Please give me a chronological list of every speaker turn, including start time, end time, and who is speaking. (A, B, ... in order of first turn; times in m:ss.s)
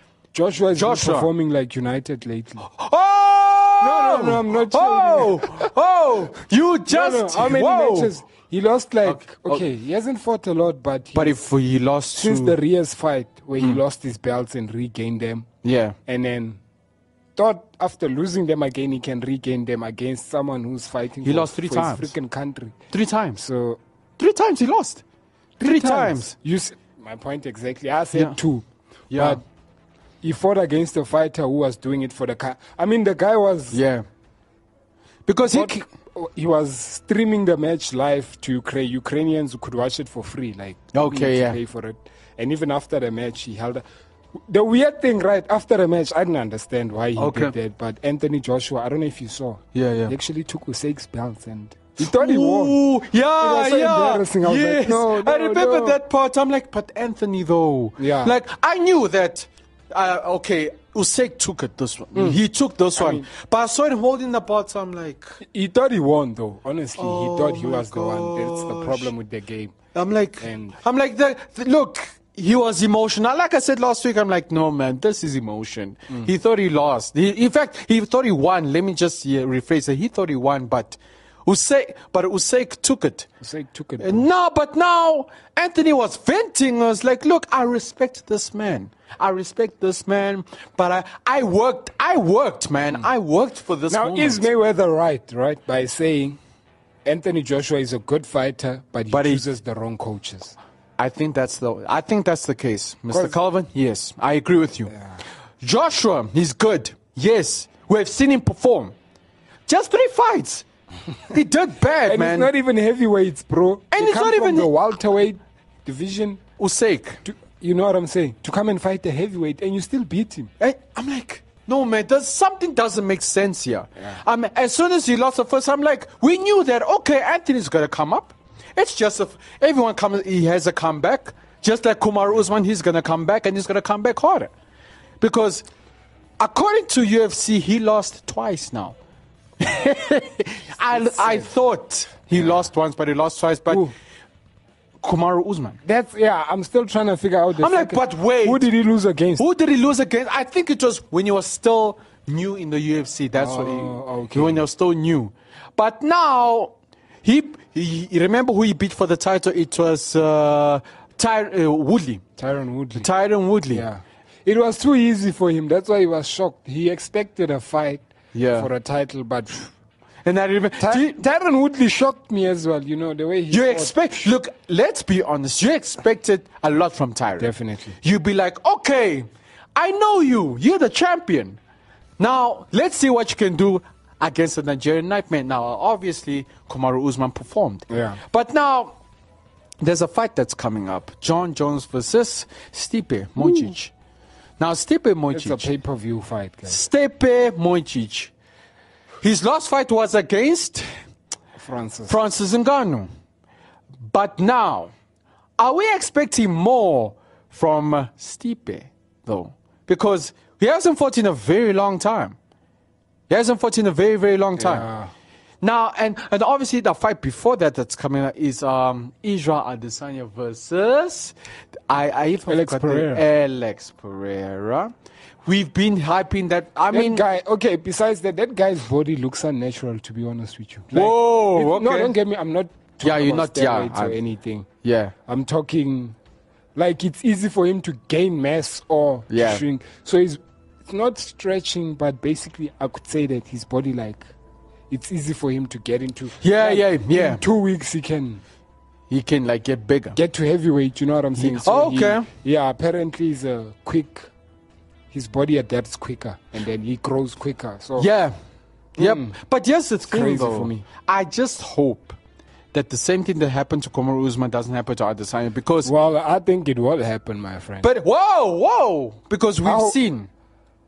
0:00.3-0:02.7 A
0:00.8-0:01.3 B
0:02.6-0:08.1 B
0:03.8-0:05.7 A
0:06.9-0:11.4 A
0:09.0-0:09.7 B
0:11.1-0:12.6 B
0:12.2-0:15.5 A
0:15.6-0:16.0 B
0:16.1-0:16.6 A
0:17.4-0:22.8 A
0:21.2-0:22.1 B
0:22.9-0:23.4 B
0:23.4-0:23.8 A
0:24.2-0:25.0 B
0:25.6-0:29.4 A
0:25.6-0:26.3 B
0:29.1-0:29.4 B
0:30.2-0:33.8 A
0:33.7-0:34.0 B
0:35.3-0:35.8 B
0:35.4-0:43.8 A
0:40.9-0:41.6 B
0:44.5-0:52.8 A
0:47.2-0:47.5 B
0:49.7-0:50.2 B
0:52.0-1:05.4 B
0:53.4-0:56.0 A
0:58.0-0:58.4 A
1:02.2-1:02.4 A
1:03.0-1:03.3 A
1:05.4-1:09.7 A
1:07.0-1:09.1 B
1:09.9-1:23.3 B
1:10.4-1:10.8 A
1:23.4-1:24.3 A
1:24.0-1:34.5 B
1:33.9-1:36.4 A
1:37.0-1:40.6 A
1:39.1-1:39.5 B
1:41.0-1:44.9 B
1:43.1-1:43.4 A
1:44.9-1:45.2 A
1:45.6-1:48.9 B
1:49.7-1:50.6 B
1:51.3-1:52.5 B
1:52.0-1:56.4 A
1:53.9-1:54.7 B
1:56.6-1:57.2 B
1:57.2-2:00.5 A
2:00.6-2:14.5 B
2:15.2-2:15.6 B
2:16.4-2:19.0 B
2:19.6-2:23.9 B
2:20.9-2:21.5 A
2:22.3-2:22.7 A
2:23.7-2:23.9 A
2:25.0-2:25.8 B
2:25.8-2:29.4 A
2:27.6-2:28.7 B
2:29.4-2:42.2 B
2:33.3-2:34.7 A
2:42.4-2:43.1 A
2:43.0-2:43.9 B
2:43.7-2:49.7 A
2:48.3-2:48.7 B
2:50.2-2:51.2 B
2:50.8-2:54.0 A
2:53.5-3:01.6 B
2:57.4-2:58.0 A
3:02.2-3:09.0 B
3:07.9-3:08.2 A
3:09.8-3:13.9 B
3:14.6-3:15.7 B
3:15.3-3:16.8 A
3:16.7-3:18.3 B
3:19.2-3:20.9 B
3:21.6-3:22.2 A
3:22.1-3:23.1 B
3:24.1-3:24.9 B
3:25.6-3:32.4 B
3:33.3-3:34.9 B
3:34.6-3:35.1 A
3:35.6-3:41.4 B
3:41.9-3:44.9 B
3:42.5-3:43.2 A
3:45.5-3:47.2 B
3:46.9-3:54.7 A
3:50.9-3:52.2 B
3:53.0-3:54.2 B
3:54.8-3:55.2 B
3:55.3-3:56.2 A
3:56.8-4:04.2 A
3:59.3-3:59.6 B
4:04.9-4:08.4 A
4:06.4-4:07.4 B
4:09.1-4:10.2 B
4:10.1-4:14.3 A
4:11.4-4:12.3 B
4:15.1-4:18.1 A
4:18.0-4:18.3 B
4:19.0-4:19.4 A
4:19.0-4:22.2 B
4:20.1-4:20.8 A
4:22.7-4:25.9 B
4:25.8-4:27.9 A
4:27.8-4:30.3 B
4:29.6-4:30.0 A